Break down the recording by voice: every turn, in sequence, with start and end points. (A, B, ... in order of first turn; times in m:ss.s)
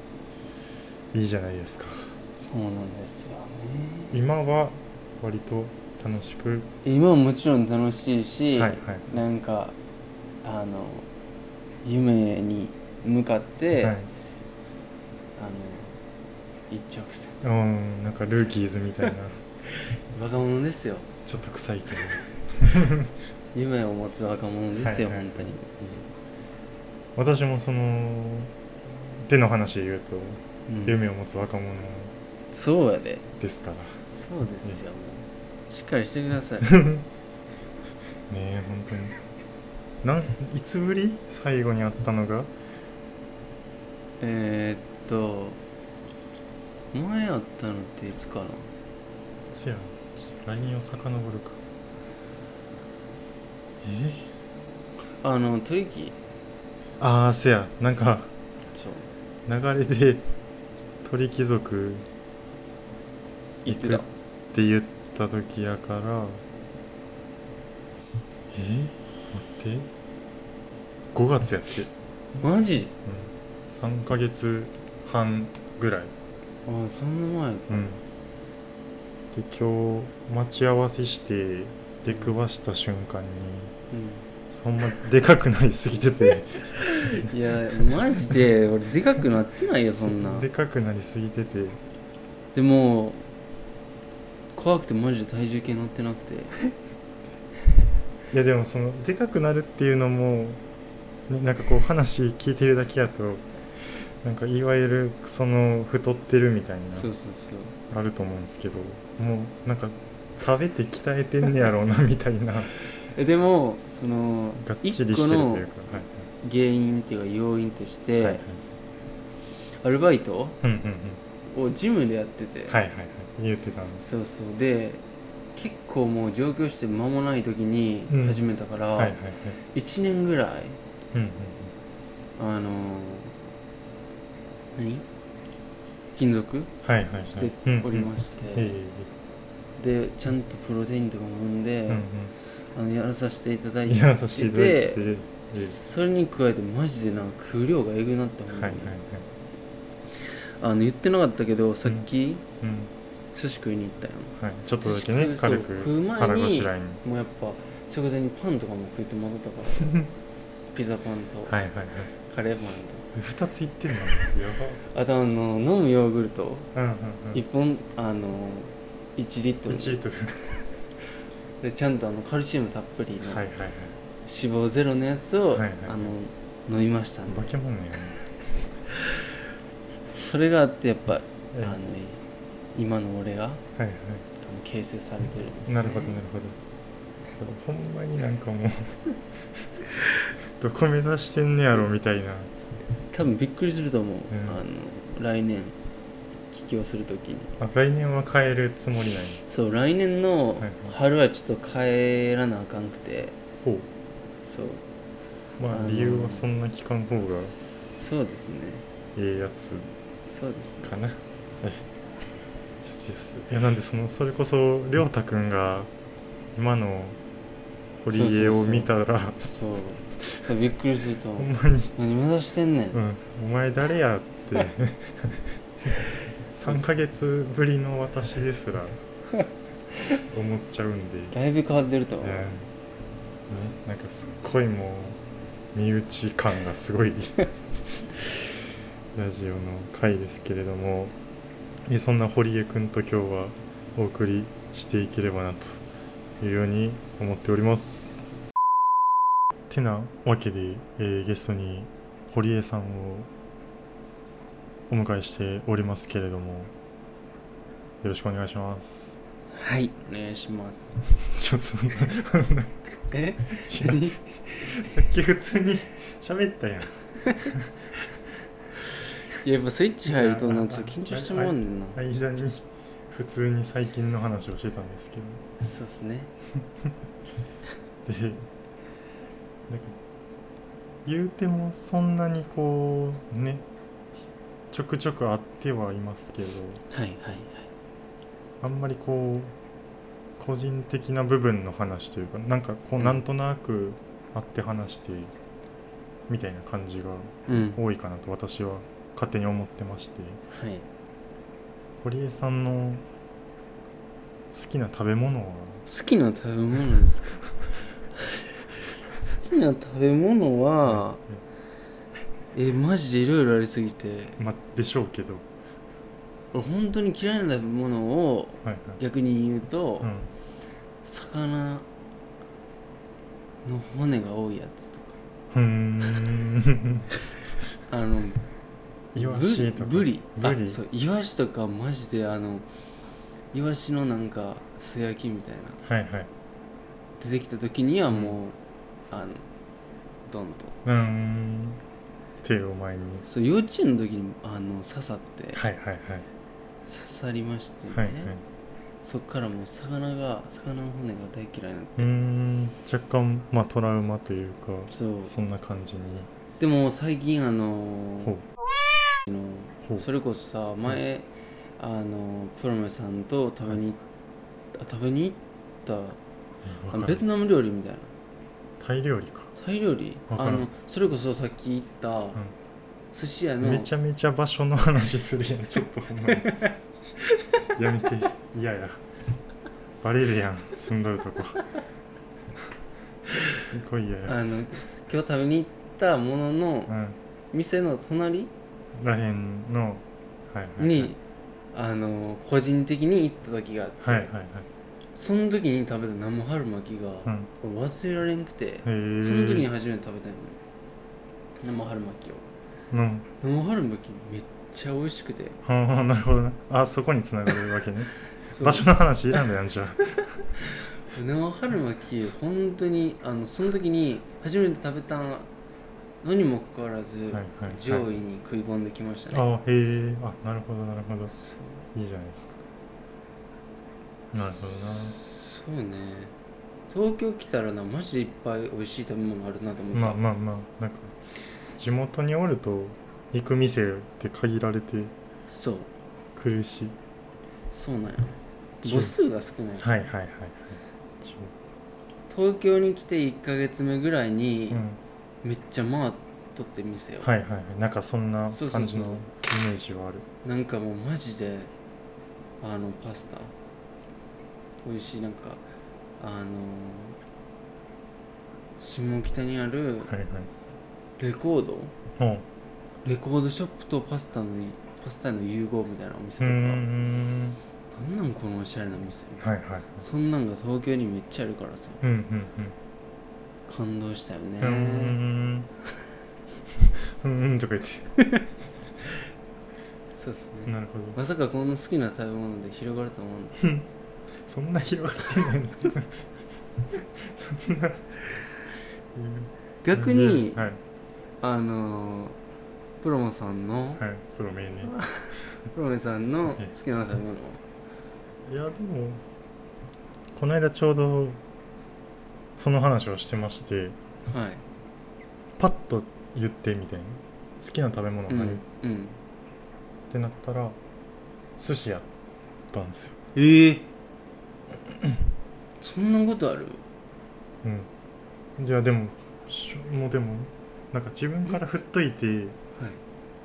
0:01.1-0:02.2 A
0:02.3-0:04.2 B
0:04.1-0:06.7 A
0:06.8-0:09.8 B
0:08.6-0:09.1 A
0:10.4-0:11.1 B
0:11.8-0:14.0 B
0:13.8-0:14.1 A
0:15.4-0:16.0 B
0:16.7-0:17.4 B
0:17.4-0:19.4 A
0:19.7-0:21.1 B
0:21.2-0:23.1 A
0:23.5-0:25.6 B
0:24.8-0:26.0 A
0:27.2-0:32.1 A
0:30.7-0:31.0 B
0:32.5-0:33.3 B
0:33.4-0:34.0 A
0:34.0-0:36.8 B
0:36.6-0:37.0 A
0:38.3-0:39.2 A
0:40.0-0:42.5 A
0:44.2-0:45.6 B
0:46.9-0:48.7 B
0:49.5-0:51.6 A
0:53.8-0:54.3 A
0:55.2-0:56.2 B
0:57.0-0:58.3 A
0:58.7-0:59.1 B
0:59.4-1:00.2 A
1:01.0-1:02.0 A
1:03.6-1:04.1 B
1:03.6-1:06.4 A
1:08.5-1:09.9 A
1:11.1-1:11.9 A
1:12.3-1:12.9 B
1:13.0-1:16.1 A
1:16.6-1:17.9 B
1:17.7-1:18.0 A
1:19.3-1:23.7 A
1:23.9-1:24.2 B
1:24.5-1:27.3 A
1:26.7-1:30.5 B
1:30.0-1:31.8 A
1:32.5-1:33.2 B
1:34.5-1:36.5 B
1:38.3-1:40.6 A
1:41.3-1:43.4 A
1:44.2-1:47.1 A
1:46.9-1:47.7 B
1:47.9-1:52.7 A
1:53.0-1:55.7 B
1:54.6-1:56.2 A
1:56.4-1:58.4 B
1:58.2-1:58.6 A
1:59.8-2:00.6 B
2:00.6-2:01.2 A
2:01.5-2:02.8 B
2:02.7-2:04.0 A
2:04.0-2:05.0 B
2:05.5-2:09.2 B
2:08.1-2:08.4 A
2:09.0-2:09.6 A
2:09.7-2:10.8 B
2:11.1-2:11.7 A
2:12.4-2:13.3 B
2:14.8-2:15.0 B
2:16.2-2:16.7 B
2:16.8-2:19.1 A
2:17.3-2:18.7 B
2:19.8-2:22.0 B
2:21.9-2:22.3 A
2:22.7-2:29.0 B
2:23.9-2:25.8 A
2:28.5-2:29.2 A
2:30.2-2:32.4 B
2:32.6-2:32.9 A
2:33.3-2:40.0 B
2:34.4-2:37.0 A
2:39.8-2:40.1 A
2:40.7-2:41.6 B
2:41.5-2:42.1 A
2:42.1-2:43.1 B
2:43.1-2:44.8 A
2:44.8-2:46.7 B
2:46.7-2:47.4 A
2:47.3-2:50.6 B
2:49.7-2:50.4 A
2:51.6-2:53.4 B
2:53.2-2:54.0 A
2:54.2-2:57.5 B
2:55.5-2:56.1 A
2:57.3-2:58.2 A
2:58.9-2:59.2 B
3:00.1-3:02.2 B
3:02.7-3:03.6 B
3:03.8-3:04.3 A
3:04.4-3:06.2 B
3:05.7-3:06.6 A
3:07.4-3:09.9 A
3:10.4-3:12.5 A
3:13.1-3:15.8 B
3:14.3-3:14.6 A
3:16.5-3:17.5 B
3:17.6-3:19.4 A
3:19.4-3:23.4 B
3:20.6-3:20.9 A
3:23.6-3:23.9 A
3:24.4-3:24.8 B
3:25.6-3:27.5 A
3:25.7-3:26.4 B
3:27.4-3:28.8 B
3:29.2-3:29.9 A
3:30.2-3:30.9 B
3:30.8-3:31.8 A
3:32.8-3:35.9 A
3:36.5-3:37.2 A
3:38.0-3:39.5 A
3:38.1-3:38.9 B
3:39.4-3:43.0 B
3:41.4-3:41.9 A
3:42.9-3:49.0 A
3:50.3-3:51.3 A
3:51.3-3:52.5 B
3:52.2-3:52.7 A
3:53.5-3:55.2 A
3:55.7-3:58.1 A
3:59.1-4:01.1 A
4:01.8-4:05.8 A
4:06.4-4:08.3 A
4:09.7-4:13.3 A
4:14.9-4:16.7 A
4:18.0-4:19.2 A
4:19.5-4:21.0 B
4:21.2-4:22.8 A
4:23.1-4:24.8 B
4:23.5-4:27.9 A
4:27.2-4:27.5 B
4:29.3-4:32.0 B
4:30.1-4:35.4 A
4:35.6-4:36.3 B
4:38.0-4:38.4 A
4:39.7-4:40.0 A
4:41.0-4:43.6 A
4:44.7-4:46.8 A
4:46.9-4:47.7 B
4:48.6-4:49.5 A
4:50.4-4:55.3 A
4:56.3-5:00.4 A
4:57.5-4:57.8 B
5:00.5-5:00.8 B
5:02.0-5:03.0 A
5:04.5-5:05.8 A
5:05.8-5:07.4 B
5:08.2-5:08.5 B
5:09.1-5:11.2 B
5:10.8-5:11.4 A
5:12.5-5:14.4 B
5:14.4-5:15.5 A
5:16.5-5:20.1 B
5:18.6-5:19.0 A
5:20.0-5:20.3 A
5:21.0-5:21.8 B
5:23.6-5:25.2 B
5:25.5-5:27.1 A
5:27.9-5:28.4 B
5:29.1-5:30.8 A
5:29.2-5:32.7 B
5:33.5-5:35.8 B
5:35.8-5:36.3 A
5:37.2-5:38.6 B
5:38.1-5:38.4 A
5:39.1-5:39.4 B
5:40.2-5:40.8 B
5:40.8-5:41.8 A
5:42.4-5:43.2 A
5:43.2-5:45.6 B
5:45.5-5:46.3 A
5:46.8-5:48.3 B
5:47.9-5:48.4 A
5:49.0-5:52.1 B
5:52.0-5:56.3 A
5:54.9-5:55.3 B
5:56.6-5:58.4 B
5:59.3-6:04.0 B
6:04.7-6:06.2 B
6:06.6-6:07.2 A
6:06.9-6:08.1 B
6:08.8-6:09.5 A
6:09.6-6:12.4 B
6:10.3-6:10.7 A
6:13.1-6:13.9 B
6:13.6-6:16.7 A
6:16.3-6:17.7 B
6:17.7-6:19.0 A
6:20.0-6:21.6 A
6:23.3-6:24.4 A
6:24.3-6:26.9 B
6:26.9-6:27.2 A
6:27.5-6:28.5 B
6:28.9-6:31.1 A
6:30.8-6:31.2 B
6:31.7-6:34.3 B
6:34.0-6:34.7 A
6:35.2-6:40.6 B
6:38.8-6:39.7 A
6:41.6-6:42.4 B
6:42.9-6:43.3 A
6:43.4-6:45.6 B
6:45.6-6:50.3 A
6:48.4-6:48.9 B
6:50.6-6:55.5 B
6:56.2-6:59.4 B
6:57.3-6:58.0 A
6:59.3-7:01.3 A
7:01.3-7:01.8 B
7:01.9-7:02.6 A
7:04.3-7:05.2 A
7:05.2-7:06.3 B
7:06.9-7:10.2 B
7:09.9-7:11.1 A
7:11.8-7:15.1 A
7:15.5-7:15.9 B
7:16.4-7:17.0 A
7:17.7-7:19.9 B
7:18.8-7:19.1 A
7:19.8-7:21.5 A
7:22.3-7:24.8 B
7:24.7-7:25.0 A
7:25.4-7:27.3 B
7:27.2-7:30.2 A
7:28.5-7:29.2 B
7:30.4-7:31.7 B
7:32.6-7:33.5 B
7:34.8-7:35.6 B
7:36.2-7:37.2 B
7:38.8-7:40.1 B
7:40.1-7:40.5 A
7:41.2-7:41.9 B
7:42.2-7:42.4 A
7:43.0-7:46.9 B
7:46.4-7:47.6 A
7:47.9-7:52.0 B
7:49.4-7:50.0 A
7:52.0-7:52.7 A
7:53.7-7:55.2 B
7:54.6-7:55.7 A
7:56.8-7:58.1 A
7:58.2-7:58.4 B
8:00.1-8:03.6 B
8:00.7-8:01.2 A
8:03.6-8:03.8 A
8:04.4-8:06.2 A
8:06.9-8:08.1 A
8:09.1-8:10.8 A
8:09.8-8:10.7 B
8:11.4-8:12.4 B
8:13.0-8:14.0 B
8:14.0-8:14.9 A
8:14.8-8:17.6 B
8:18.4-8:19.2 A
8:20.3-8:21.4 A
8:22.6-8:24.0 A
8:24.2-8:24.6 B
8:25.6-8:28.6 A
8:28.3-8:29.2 B
8:30.1-8:30.8 A
8:31.6-8:32.1 A
8:32.7-8:33.2 A
8:33.3-8:33.9 B
8:35.8-8:36.8 B
8:37.6-8:37.9 A
8:38.6-8:42.6 A
8:42.7-8:43.0 B